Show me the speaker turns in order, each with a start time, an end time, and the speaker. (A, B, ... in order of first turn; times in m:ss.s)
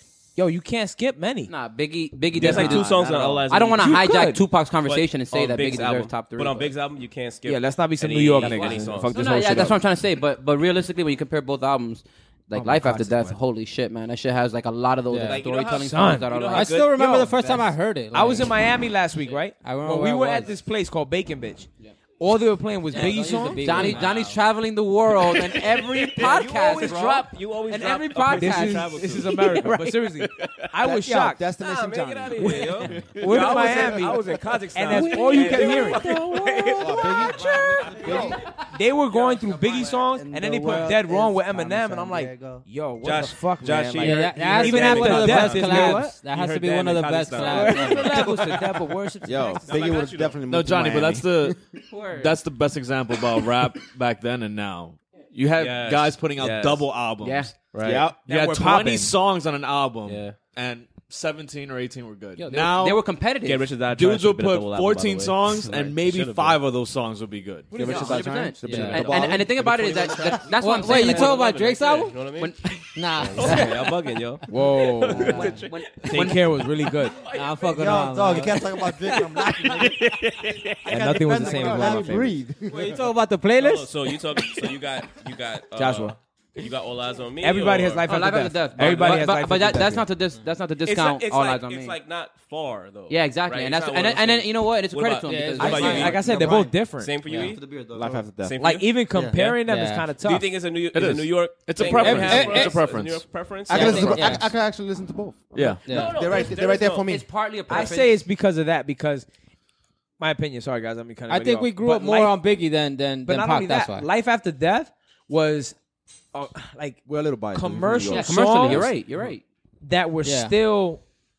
0:00.4-0:01.5 A
0:01.5-0:06.7 B
0:02.4-0:02.9 A
0:02.4-0:04.1 C
0:03.8-0:04.4 A
0:04.9-0:09.7 C
0:07.4-0:09.8 A
0:08.4-0:17.7 B
0:12.6-0:13.4 D
0:15.1-0:15.4 E
0:15.3-0:17.5 C
0:15.8-0:16.3 A
0:16.5-0:18.5 E
0:18.1-0:24.1 A
0:19.6-0:20.5 E
0:22.9-0:29.6 B
0:23.0-0:24.0 E
0:23.7-0:24.4 C
0:25.2-0:30.7 C
0:28.4-0:31.5 A
0:30.8-0:34.0 D
0:31.6-0:38.4 C
0:32.4-0:34.2 A
0:34.7-0:37.1 A
0:36.8-0:38.4 D
0:37.1-0:38.4 F
0:38.7-0:46.1 A
0:39.1-0:39.8 C
0:39.1-0:42.6 F
0:43.0-0:48.3 C
0:44.0-0:48.1 E
0:47.4-0:49.6 A
0:47.8-0:48.7 B
0:49.2-0:51.5 D
0:49.6-0:50.4 C
0:50.5-1:03.2 G
0:51.9-0:52.4 B
0:55.6-0:57.1 C
0:57.2-0:57.7 B
0:57.7-0:58.1 C
0:58.3-0:59.2 A
1:00.0-1:00.4 C
1:02.4-1:03.8 B
1:03.4-1:06.6 C
1:03.8-1:07.9 G
1:07.7-1:08.8 A
1:07.7-1:10.5 D
1:07.8-1:11.6 B
1:07.9-1:10.4 F
1:08.6-1:09.1 E
1:10.6-1:12.4 E
1:10.8-1:12.6 C
1:12.4-1:12.8 B
1:12.9-1:14.0 E
1:13.3-1:17.7 C
1:14.5-1:17.2 A
1:15.2-1:15.6 E
1:15.7-1:16.5 B
1:17.3-1:18.7 E
1:17.7-1:20.1 F
1:20.8-1:22.6 F
1:20.9-1:22.3 A
1:21.3-1:22.9 D
1:22.7-1:24.0 E
1:22.7-1:23.0 C
1:23.5-1:28.2 C
1:25.8-1:26.2 A
1:27.4-1:30.1 A
1:28.1-1:32.0 B
1:28.8-1:29.3 C
1:30.8-1:37.8 C
1:33.1-1:36.2 B
1:35.2-1:36.2 E
1:35.6-1:37.1 A
1:35.7-1:36.8 F
1:37.3-1:38.3 F
1:38.0-1:38.6 G
1:38.4-1:39.6 C
1:38.6-1:40.5 A
1:39.1-1:39.4 F
1:39.6-1:40.0 E
1:40.2-1:44.4 C
1:40.9-1:43.3 G
1:41.8-1:42.8 E
1:43.7-1:47.3 D
1:43.7-1:44.5 E
1:43.7-1:44.3 B
1:45.5-1:45.9 G
1:45.9-1:46.2 E
1:45.9-1:48.2 B
1:45.9-1:47.1 C
1:47.7-1:49.3 A
1:50.2-1:52.4 A
1:51.3-1:54.1 E
1:53.3-1:55.8 A
1:56.3-1:59.0 A
1:57.1-1:58.9 D
1:58.1-1:59.4 B
1:59.8-2:01.0 A
2:00.2-2:00.5 E